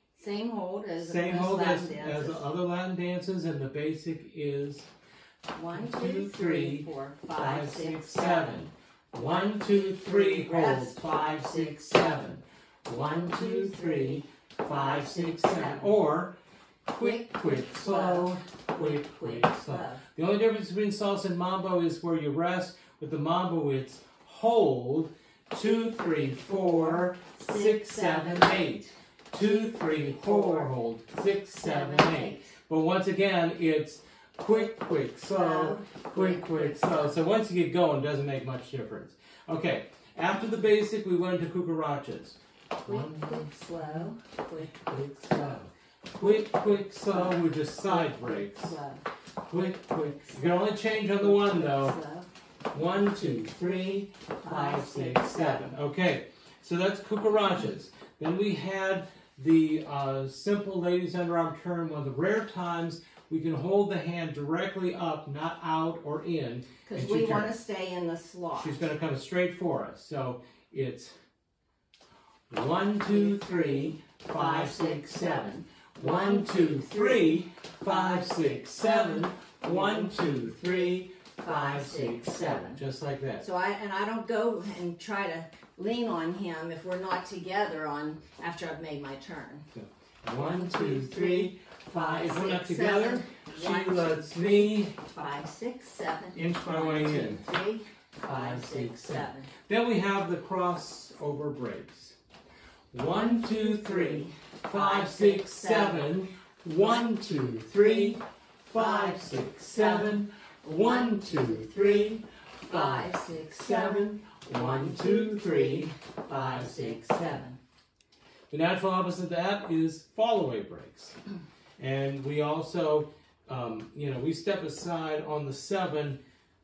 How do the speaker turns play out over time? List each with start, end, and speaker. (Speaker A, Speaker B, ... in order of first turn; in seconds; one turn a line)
Speaker A: 0.2-2.5
Speaker B: 1.0-4.9
Speaker A: 5.5-8.7
Speaker B: 5.7-16.4
Speaker A: 9.2-11.7
Speaker A: 13.0-16.0
Speaker B: 16.9-44.1
Speaker A: 17.0-20.0
Speaker A: 26.1-28.7
Speaker A: 29.4-30.7
Speaker A: 31.5-32.5
Speaker A: 35.3-37.2
Speaker A: 42.8-44.7
Speaker B: 44.6-48.8
Speaker A: 46.2-49.0
Speaker B: 49.5-52.0
Speaker A: 50.2-52.3
Speaker B: 52.7-67.5
Speaker A: 53.0-53.4
Speaker A: 54.4-55.8
Speaker A: 66.9-68.9
Speaker B: 68.5-71.2
Speaker B: 72.5-83.5
Speaker A: 73.0-82.8
Speaker A: 83.4-89.7
Speaker B: 89.7-95.0
Speaker A: 90.3-99.5
Speaker B: 96.3-97.5
Speaker B: 98.2-102.2
Speaker B: 102.9-117.4
Speaker A: 103.1-106.1
Speaker A: 107.5-108.2
Speaker A: 108.7-112.0
Speaker A: 112.7-117.6
Speaker B: 118.5-121.2
Speaker B: 121.8-126.2